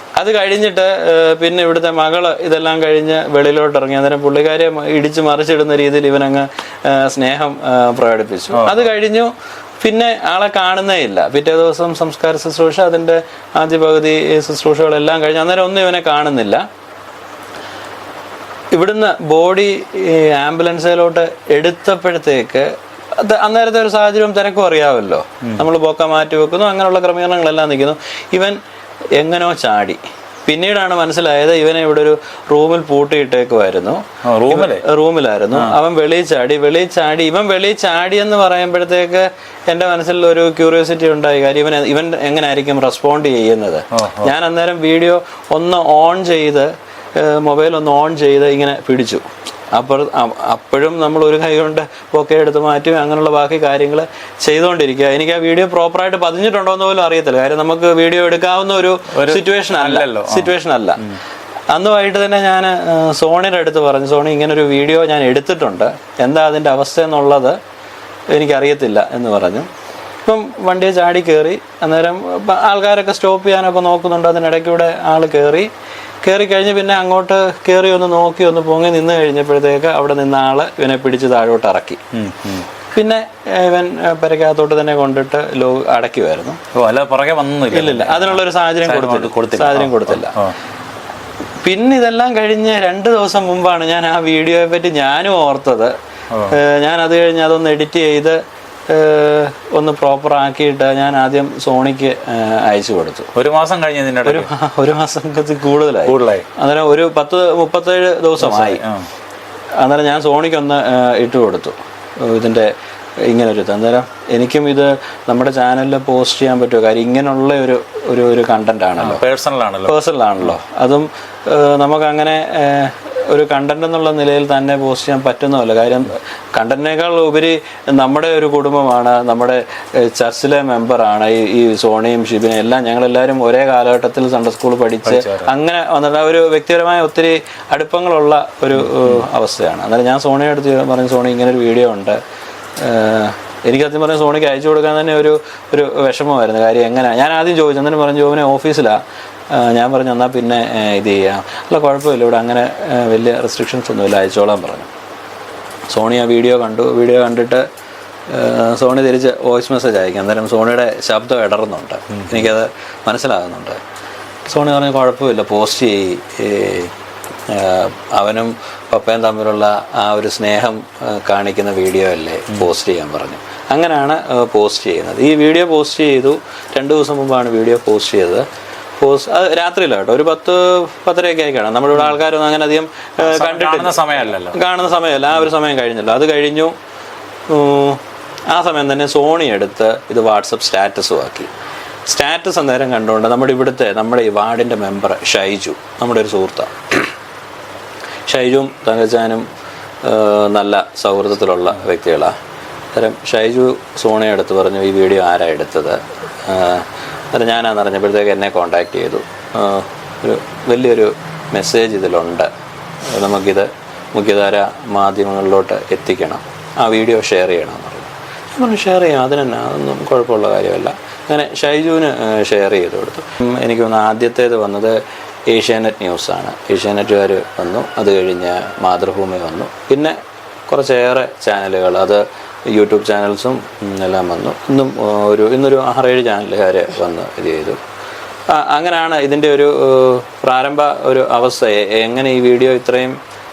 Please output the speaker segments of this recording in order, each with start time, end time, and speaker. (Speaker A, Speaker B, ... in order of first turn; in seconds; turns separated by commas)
Speaker A: 0.2-16.6, Speaker B: 8.5-8.8, Speaker A: 18.7-28.6, Speaker A: 29.2-61.0, Speaker B: 34.3-34.8, Speaker B: 44.0-44.3, Speaker B: 59.1-60.5, Speaker A: 61.7-67.6, Speaker A: 68.3-69.7, Speaker A: 70.2-75.7, Speaker A: 76.2-82.0, Speaker B: 82.1-82.7, Speaker A: 82.9-86.6, Speaker B: 86.7-90.6, Speaker A: 87.7-90.3, Speaker A: 91.6-95.9, Speaker A: 96.5-98.4, Speaker A: 98.9-103.3, Speaker B: 103.3-104.5, Speaker A: 104.2-108.8, Speaker B: 106.1-106.5, Speaker B: 108.4-109.1, Speaker A: 109.8-112.7, Speaker A: 113.2-119.2, Speaker B: 119.0-119.9, Speaker A: 119.9-142.2, Speaker B: 135.1-135.5, Speaker B: 138.8-139.2, Speaker A: 142.8-154.9, Speaker A: 155.9-157.7, Speaker A: 158.3-163.8, Speaker B: 162.1-162.5, Speaker A: 164.5-166.9, Speaker A: 167.5-178.4, Speaker A: 179.0-186.8, Speaker B: 183.2-184.6, Speaker A: 187.5-191.5, Speaker A: 192.1-197.1, Speaker A: 198.3-199.4, Speaker A: 200.0-202.3, Speaker A: 202.9-212.5, Speaker A: 213.1-225.0, Speaker A: 225.5-230.2, Speaker A: 230.7-237.8, Speaker A: 238.5-243.2